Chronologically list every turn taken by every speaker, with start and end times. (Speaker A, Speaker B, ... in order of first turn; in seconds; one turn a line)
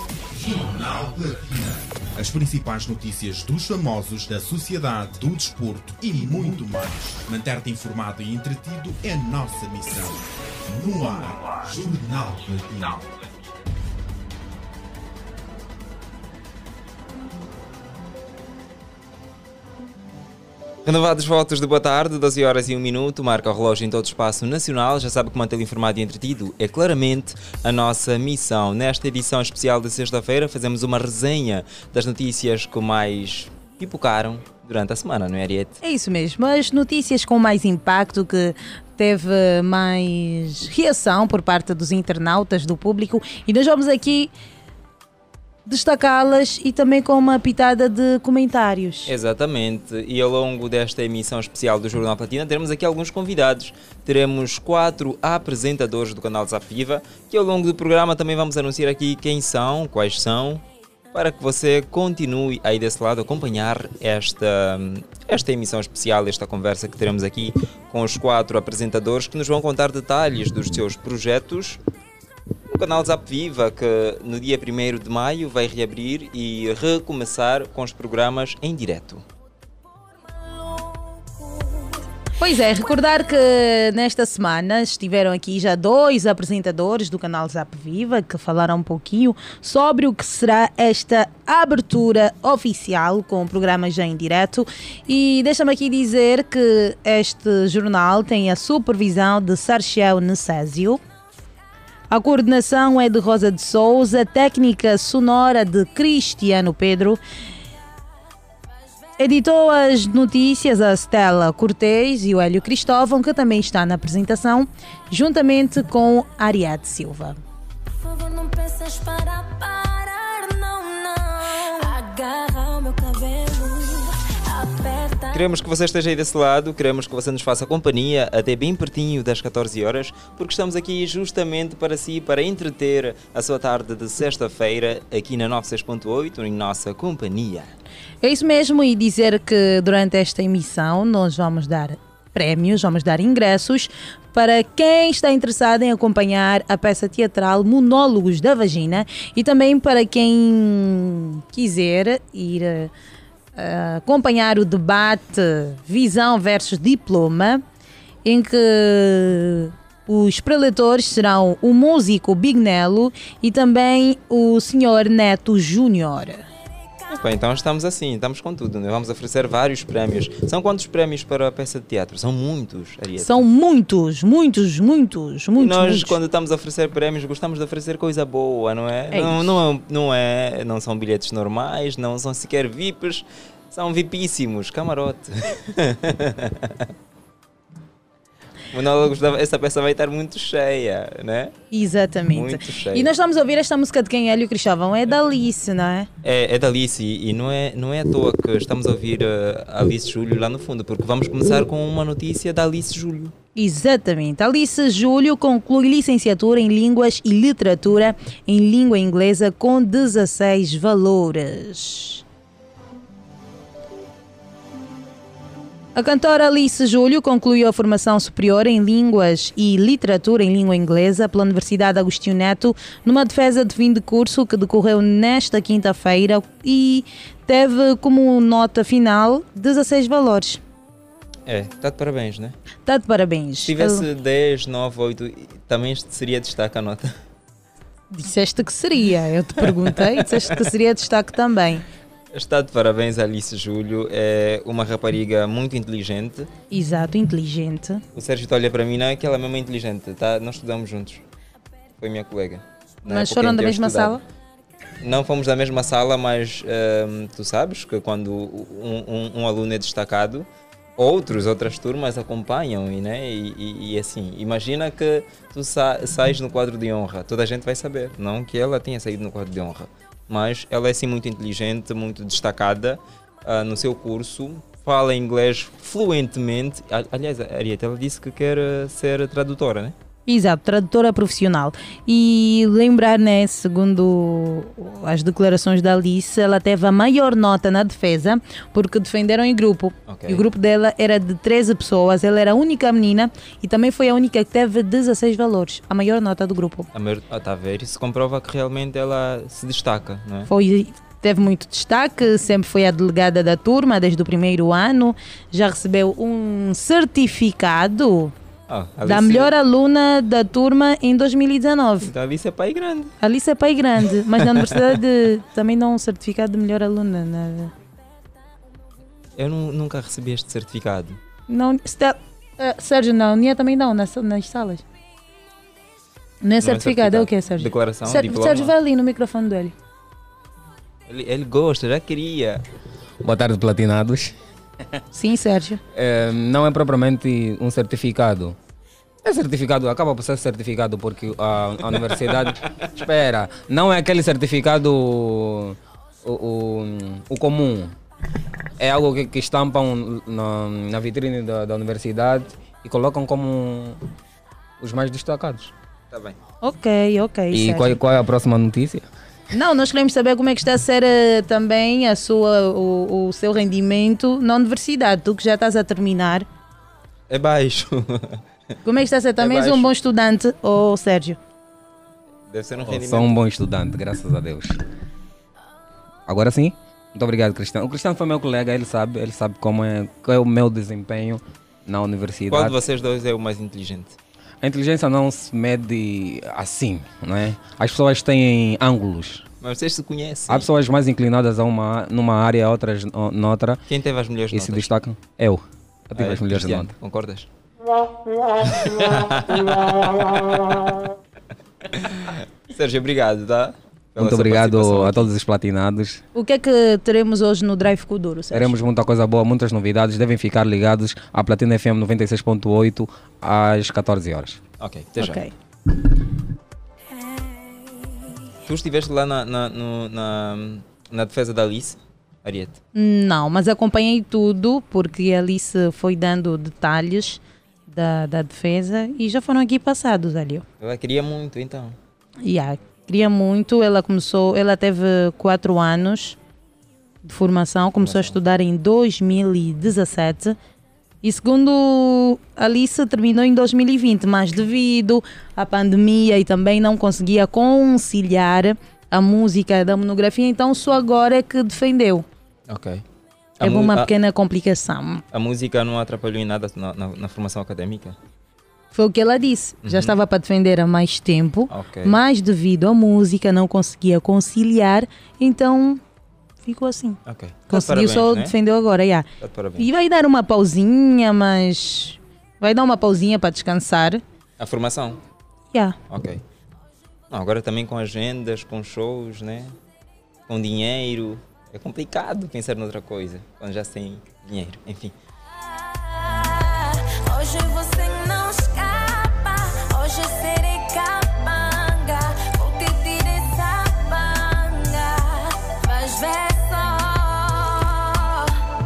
Speaker A: 0.3-13.1
Speaker B: 20.8-35.8
Speaker C: 35.8-44.3
Speaker C: 45.7-49.1
Speaker B: 49.0-71.8
Speaker B: 72.7-79.2
Speaker D: 81.4-81.9
Speaker C: 82.4-101.0
Speaker C: 102.1-107.2
Speaker C: 109.2-117.4
Speaker D: 117.9-125.5
Speaker B: 125.3-137.7
Speaker C: 138.2-152.9
Speaker C: 153.6-157.6
Speaker C: 158.2-166.4
Speaker B: 167.1-173.4
Speaker C: 173.2-176.2
Speaker B: 175.6-186.9
Speaker C: 179.1-179.4
Speaker B: 188.7-191.5
Speaker C: 191.7-196.1
Speaker B: 192.3-193.1
Speaker B: 196.2-203.3
Speaker C: 203.6-212.2
Speaker C: 215.9-230.6
Speaker B: 231.5-232.6
Speaker C: 232.8-234.1
Speaker B: 233.6-237.1
Speaker C: 238.1-241.8
Speaker B: 239.6-240.6
Speaker B: 242.3-246.5
Speaker C: 246.7-248.0
Speaker B: 248.2-251.2
Speaker B: 252.0-254.2
Speaker C: 253.1-254.2
Speaker B: 255.0-279.9
Speaker C: 280.3-296.9
Speaker B: 290.1-290.4
Speaker B: 296.9-300.5
Speaker C: 300.5-308.3
Speaker B: 308.7-309.5
Speaker C: 309.1-312.1
Speaker B: 312.0-313.1
Speaker C: 313.2-317.7
Speaker B: 314.4-315.0
Speaker B: 319.4-321.2
Speaker C: 321.5-324.8
Speaker C: 326.4-329.7
Speaker B: 326.6-328.7
Speaker B: 331.1-332.6
Speaker E: 333.2-334.3
Speaker C: 335.1-335.8
Speaker E: 335.9-338.6
Speaker E: 339.2-347.9
Speaker E: 348.8-354.0
Speaker E: 354.8-355.7
Speaker C: 356.6-358.0
Speaker E: 357.5-359.0
Speaker C: 359.5-366.4
Speaker B: 367.3-368.4
Speaker C: 368.9-371.4
Speaker B: 369.4-369.9
Speaker B: 372.5-373.4
Speaker E: 372.8-374.8
Speaker E: 376.3-382.8
Speaker B: 382.5-384.2
Speaker E: 384.6-389.4
Speaker B: 389.6-390.7
Speaker E: 390.5-393.8
Speaker B: 393.9-394.9
Speaker E: 394.5-396.9
Speaker B: 396.2-397.5
Speaker B: 398.6-400.7
Speaker B: 401.9-405.3
Speaker E: 404.2-406.2
Speaker C: 406.4-408.8
Speaker E: 408.5-414.6
Speaker B: 414.8-415.4
Speaker C: 415.2-415.5
Speaker D: 417.1-418.2
Speaker B: 418.7-422.8
Speaker C: 422.9-430.6
Speaker B: 430.8-431.9
Speaker C: 432.4-436.4
Speaker C: 437.2-440.6
Speaker B: 438.0-438.4
Speaker C: 441.2-452.2
Speaker B: 452.7-453.0
Speaker B: 453.6-454.1
Speaker C: 453.6-455.2
Speaker B: 455.3-458.2
Speaker C: 458.9-466.0
Speaker B: 459.8-460.2
Speaker B: 461.7-462.2
Speaker C: 466.6-467.2
Speaker B: 467.2-468.6
Speaker C: 467.7-469.2
Speaker B: 469.4-469.9
Speaker C: 469.8-474.2
Speaker B: 474.6-475.2
Speaker B: 476.1-476.4
Speaker B: 477.3-479.7
Speaker B: 480.5-485.1
Speaker D: 485.9-498.6